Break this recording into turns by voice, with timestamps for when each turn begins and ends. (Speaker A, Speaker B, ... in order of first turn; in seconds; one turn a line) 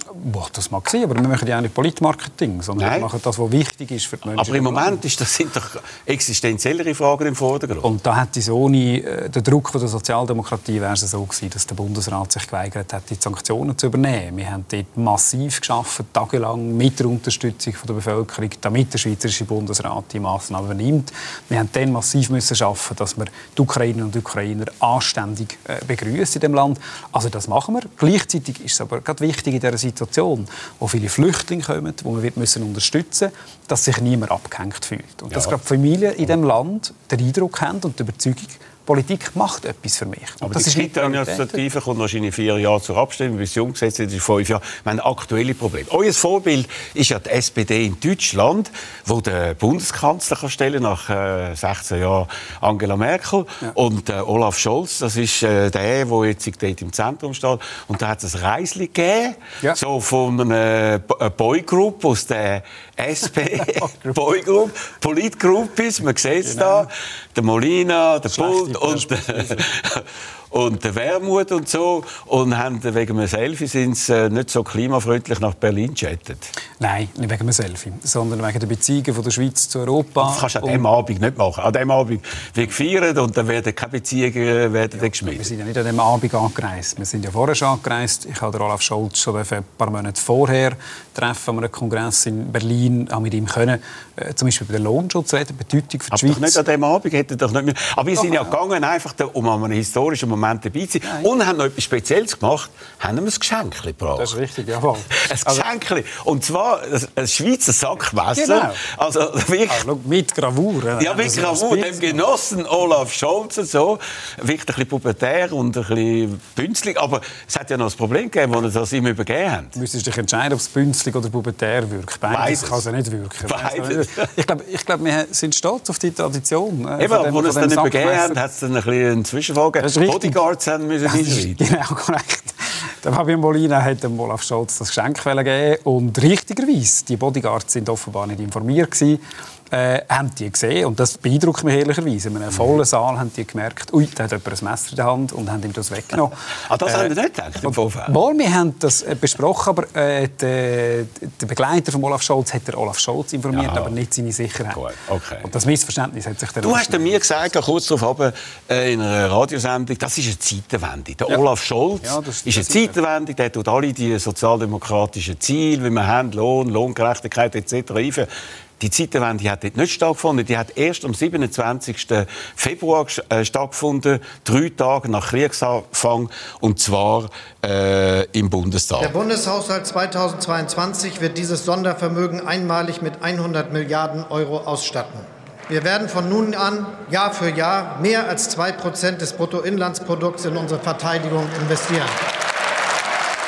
Speaker A: 0.1-5.0
Speaker B: 2.8-3.1
Speaker B: 4.2-7.9
Speaker A: 7.8-41.6
Speaker B: 40.4-76.5
Speaker A: 63.6-64.1
Speaker A: 66.4-66.9
Speaker A: 68.3-69.7
Speaker A: 76.8-80.8
Speaker B: 80.2-85.5
Speaker A: 84.9-96.6
Speaker B: 96.1-104.3
Speaker A: 98.2-98.5
Speaker A: 104.2-105.7
Speaker B: 105.1-109.8
Speaker A: 108.3-108.8
Speaker A: 109.7-112.2
Speaker B: 111.0-119.7
Speaker A: 119.7-128.4
Speaker B: 122.3-122.8
Speaker B: 123.5-124.2
Speaker B: 127.0-131.6
Speaker A: 129.8-130.4
Speaker A: 131.0-147.1
Speaker B: 146.7-148.1
Speaker A: 147.6-154.8
Speaker B: 153.5-153.9
Speaker B: 154.7-155.5
Speaker A: 155.4-157.5
Speaker B: 156.6-168.3
Speaker A: 162.0-163.0
Speaker B: 168.8-179.2
Speaker C: 179.0-192.2